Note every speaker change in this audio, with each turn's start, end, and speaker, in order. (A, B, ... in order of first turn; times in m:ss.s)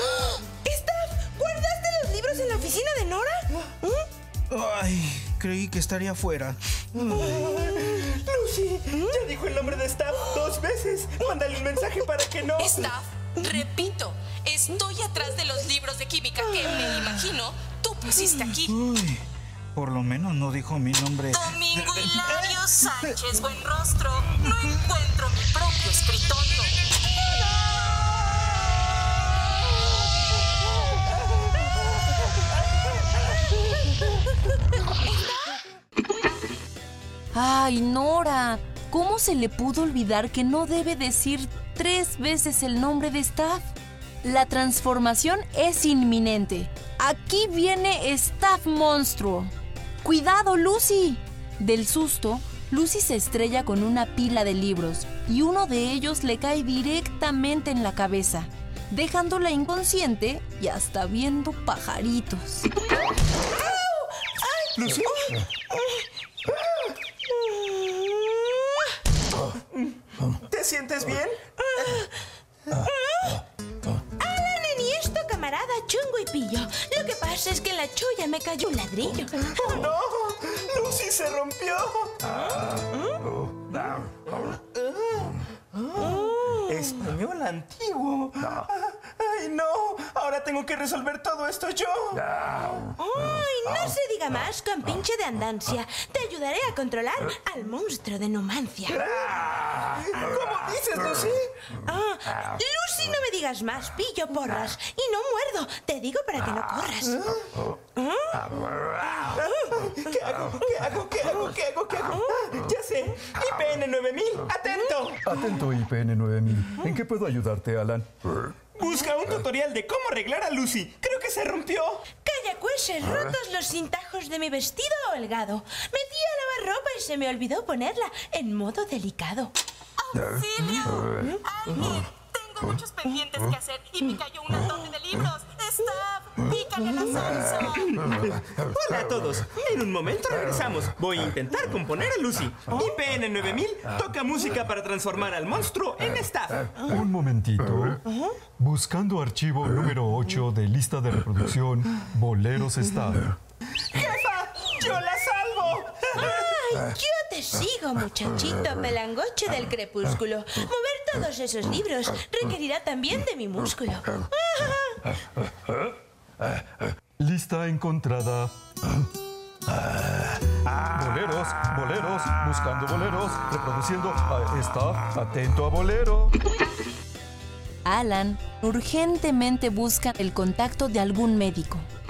0:00.1-0:03.5 A
0:04.5-0:07.3 B
0:07.0-0:12.9 C
0:12.6-0:18.8 D
0:18.7-0:19.2 B
0:19.8-0:23.1 B
0:21.3-0:26.7 D
0:37.3-0:43.7 E
0:44.2-0:49.5 E
0:50.0-1:02.7 E
1:03.6-1:05.4 A
1:04.8-1:05.4 C
1:09.8-1:11.4 C
1:11.6-1:12.1 A
1:12.8-1:13.4 A
1:14.2-1:19.6 A
1:19.5-1:22.3 C
1:23.7-1:24.0 C
1:24.8-1:26.1 C
1:26.0-1:26.7 A
1:26.7-1:32.3 C
1:33.0-1:39.1 A
1:39.0-1:41.5 C
1:41.8-1:47.3 A
1:48.0-1:48.4 A
1:49.4-1:55.2 C
1:55.2-1:58.1 F
1:58.8-2:02.0 C
2:02.2-2:09.5 A
2:10.1-2:18.0 D
2:17.8-2:26.7 C
2:26.9-2:28.0 F
2:28.6-2:33.3 F
2:33.9-2:36.4 C
2:36.2-2:45.0 A
2:47.2-2:48.5 F
2:49.7-2:50.2 F
2:50.9-2:56.3 F
2:57.8-3:01.9 E